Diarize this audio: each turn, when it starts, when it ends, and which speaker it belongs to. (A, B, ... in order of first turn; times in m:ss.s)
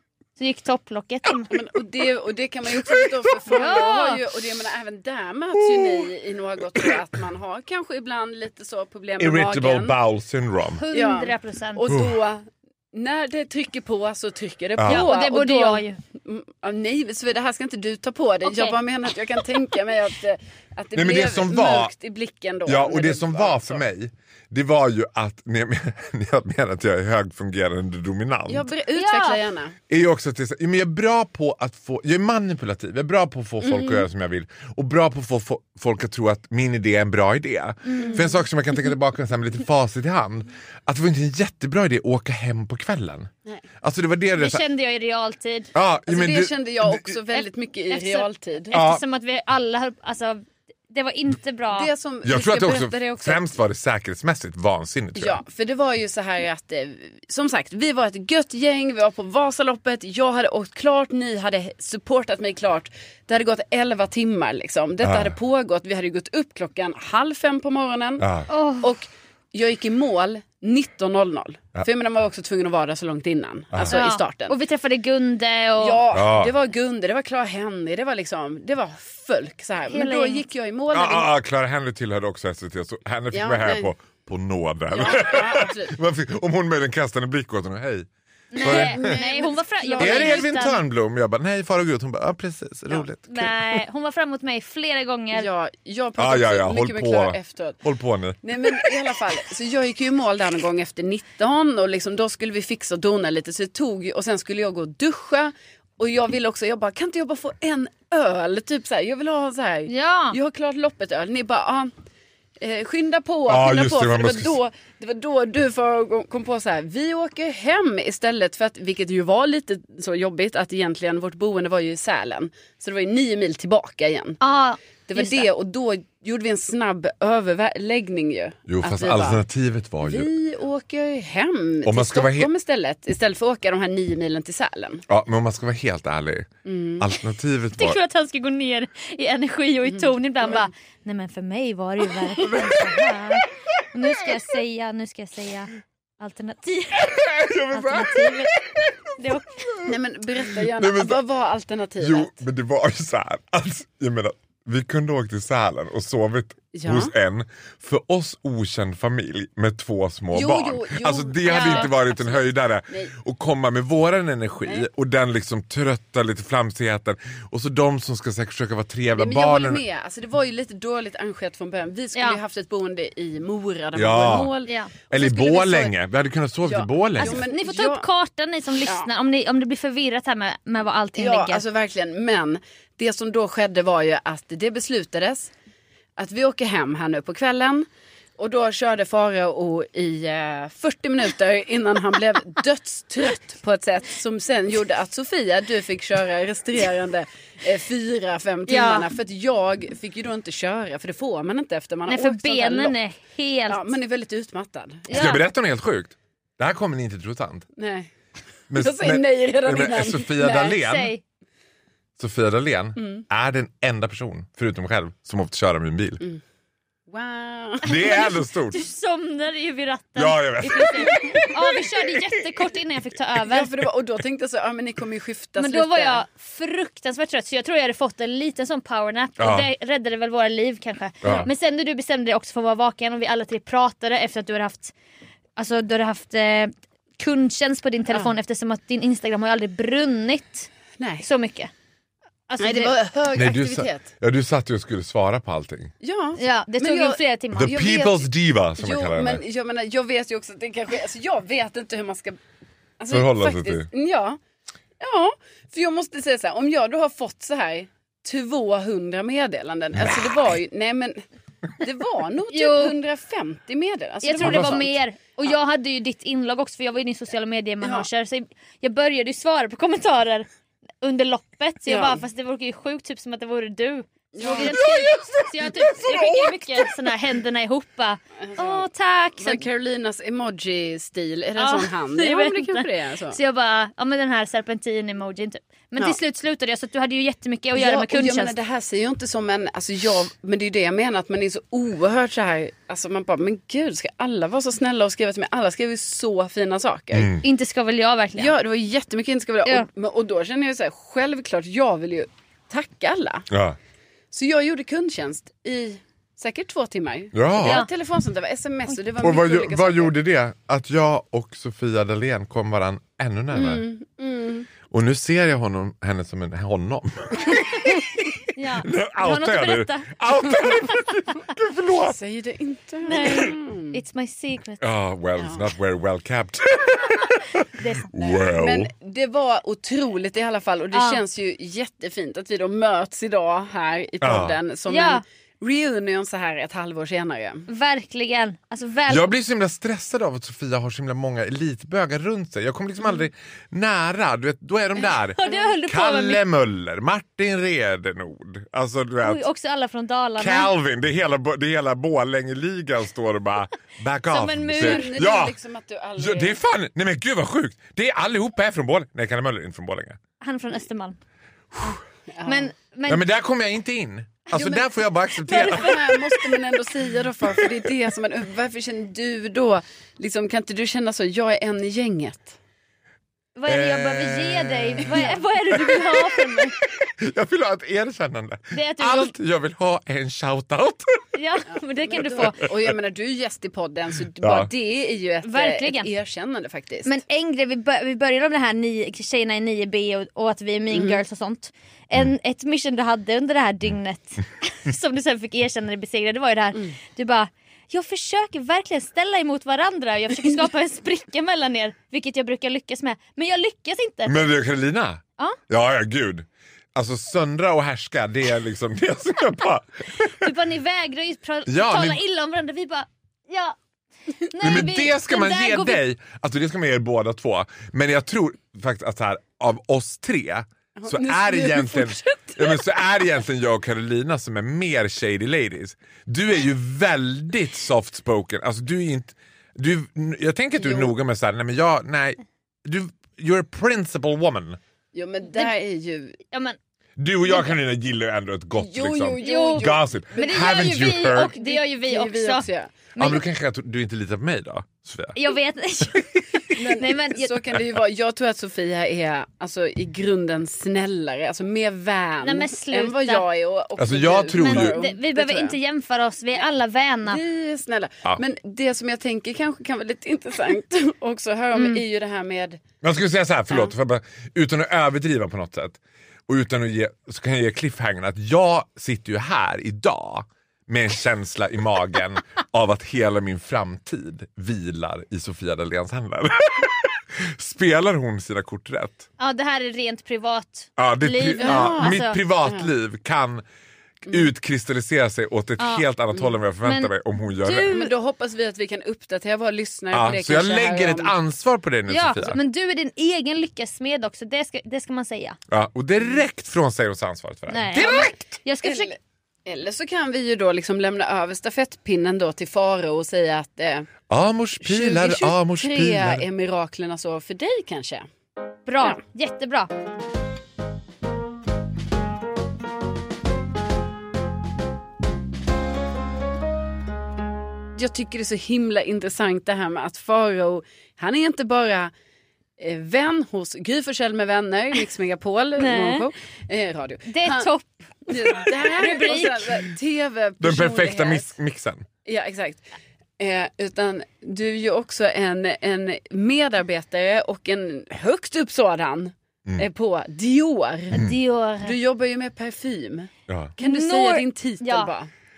0:00.4-0:01.5 A
0:01.5-0:10.0 B
0:02.8-0:03.2 C
0:03.5-0:04.2 A
0:05.7-0:06.1 C
0:09.2-0:10.8 C
0:10.8-0:11.9 A
0:10.9-0:23.8 B
0:11.9-0:12.2 C
0:14.8-0:15.1 C
0:14.9-0:16.0 A
0:18.4-0:18.8 A
0:21.0-0:21.9 C
0:22.7-0:28.7 C
0:28.5-0:29.8 B
0:29.0-0:29.4 A
0:29.9-0:43.3 C
0:33.6-0:34.1 B
0:37.9-0:38.3 A
0:38.0-0:38.4 B
0:43.8-0:44.6 C
0:44.4-0:45.7 A
0:45.8-0:47.2 C
0:46.1-0:48.8 B
0:47.3-0:51.9 A
0:48.7-0:49.0 C
0:51.7-0:53.5 B
0:52.2-0:55.4 C
0:55.2-1:14.6 B
1:05.0-1:05.4 C
1:08.2-1:08.5 C
1:08.5-1:08.9 A
1:13.7-1:14.0 C
1:13.9-1:16.0 A
1:15.8-1:21.3 B
1:16.1-1:16.5 C
1:19.9-1:20.5 A
1:20.9-1:28.1 C
1:23.3-1:23.9 B
1:24.9-1:25.9 B
1:28.5-1:30.8 A
1:28.6-1:30.6 B
1:28.6-1:29.2 C
1:30.0-1:33.8 C
1:33.3-1:35.5 A
1:35.3-1:37.8 B
1:36.2-1:38.9 C
1:38.4-1:51.9 B
1:49.9-1:50.4 A
1:52.6-2:04.4 B
1:53.5-1:54.5 C
2:04.4-2:05.5 A
2:05.1-2:09.4 B
2:08.7-2:10.3 C
2:10.0-2:15.1 B
2:11.8-2:12.5 C
2:15.1-2:18.0 C
2:16.6-2:17.1 B
2:17.8-2:29.9 A
2:19.9-2:20.7 B
2:22.5-2:22.8 C
2:26.9-2:29.9 C
2:29.8-2:32.4 B
2:30.5-2:31.2 C
2:32.0-2:49.8 C
2:36.7-2:37.1 B
2:40.3-2:43.1 B
2:41.5-2:41.9 A
2:49.1-2:56.0 B
2:54.0-2:54.5 C
2:54.7-2:54.9 A
2:55.1-2:57.4 C
2:56.6-2:58.1 B
2:57.2-3:01.6 A
2:58.8-2:59.1 B
3:01.2-3:05.5 B
3:06.2-3:07.9 B
3:08.4-3:23.0 B
3:18.7-3:19.1 A
3:22.1-3:23.9 A
3:23.7-3:25.2 B
3:25.1-3:25.4 A
3:25.1-3:27.7 C
3:27.8-3:28.1 B
3:28.7-3:30.8 B
3:28.7-3:31.1 C
3:30.5-3:31.2 A
3:32.2-3:36.2 C
3:33.0-3:33.3 B
3:37.1-3:38.1 B
3:37.8-3:38.8 C
3:37.9-3:43.8 A
3:40.2-3:41.5 C
3:40.8-3:41.7 B
3:43.4-3:46.2 B
3:45.6-3:54.9 A
3:49.4-3:49.7 C
3:51.2-3:51.5 C
3:55.6-4:00.7 A
4:01.0-4:01.3 B
4:01.2-4:01.7 A
4:02.5-4:02.9 A
4:02.6-4:04.1 B
4:03.4-4:05.9 C
4:06.0-4:12.4 B
4:06.4-4:07.7 A
4:07.6-4:09.4 C
4:13.0-4:14.4 B
4:13.1-4:13.9 C
4:15.0-4:21.2 B
4:20.0-4:20.4 C
4:21.8-4:25.0 B
4:22.5-4:23.0 A
4:24.2-4:30.5 A
4:24.4-4:24.8 C
4:27.8-4:28.1 B
4:31.0-4:39.6 A
4:31.9-4:32.2 B
4:34.3-4:34.8 B
4:34.5-4:37.0 C
4:38.4-4:43.4 B
4:41.6-4:48.5 A
4:47.7-4:57.4 B
4:57.1-4:57.4 C
4:57.4-4:58.5 A
4:58.4-5:03.5 B
5:03.5-5:03.8 C
5:04.3-5:10.1 B
5:07.3-5:07.8 C
5:07.6-5:07.9 A
5:09.2-5:13.8 C
5:13.5-5:14.7 B
5:14.9-5:22.2 C
5:18.5-5:21.0 A
5:22.0-5:24.0 B
5:23.0-5:24.8 A
5:24.8-5:28.9 C
5:25.4-5:25.7 B
5:27.8-5:28.1 A
5:28.2-5:37.7 B
5:30.9-5:31.2 A
5:34.2-5:34.6 C
5:34.9-5:35.2 A
5:37.7-5:39.3 A
5:39.1-5:49.4 C
5:45.1-5:46.4 A
5:45.4-5:45.7 B
5:49.2-5:50.7 A
5:50.4-5:55.6 C
5:54.3-5:55.2 A
5:54.8-5:56.6 B
5:56.2-6:00.2 C
6:00.4-6:01.2 A
6:01.9-6:03.2 A
6:02.4-6:02.7 B
6:03.1-6:06.2 C
6:04.5-6:04.9 B
6:05.4-6:12.6 B
6:05.5-6:06.0 A
6:07.5-6:07.9 C
6:13.6-6:16.8 A
6:13.7-6:21.3 C
6:15.0-6:15.4 B
6:18.7-6:19.3 A
6:21.4-6:22.7 A
6:21.7-6:27.1 B
6:22.4-6:22.7 C
6:24.4-6:24.7 C
6:25.4-6:26.1 A
6:27.1-6:44.4 A
6:30.9-6:31.2 B
6:44.3-6:50.5 C
6:50.3-6:53.8 A
6:51.7-6:52.2 C
6:54.3-6:56.0 A
6:54.6-7:14.8 C
7:01.0-7:02.8 B
7:10.8-7:11.1 B
7:15.1-7:16.4 B
7:16.5-7:16.8 A
7:17.2-7:21.6 C
7:18.8-7:23.4 B
7:19.4-7:23.4 A
7:23.2-7:25.4 C
7:25.4-7:27.6 A
7:26.7-7:35.8 B
7:27.6-7:28.0 C
7:32.4-7:33.4 A
7:34.0-7:35.0 C
7:34.5-7:37.4 A
7:37.3-7:42.8 B
7:41.7-7:42.0 A
7:43.0-7:59.3 C
7:59.4-8:02.4 A
8:01.0-8:03.6 C
8:01.6-8:02.9 B
8:04.2-8:08.0 C
8:05.8-8:06.1 A
8:06.8-8:08.1 A
8:07.9-8:11.4 B
8:10.1-8:12.6 C
8:12.1-8:15.6 A
8:15.7-8:18.5 C
8:17.7-8:19.1 A
8:18.8-8:24.1 B
8:24.3-8:26.4 C
8:24.8-8:28.3 B
8:28.9-8:29.9 A
8:38.0-8:42.1 B
8:42.8-8:47.7 B
8:45.8-8:46.3 A
8:47.3-8:49.9 A
8:48.3-8:51.6 B
8:50.6-8:52.1 C
8:52.2-8:52.9 B
8:53.4-9:01.2 B
9:01.1-9:02.0 A
9:01.8-9:05.3 B
9:03.5-9:03.8 C
9:03.8-9:05.1 A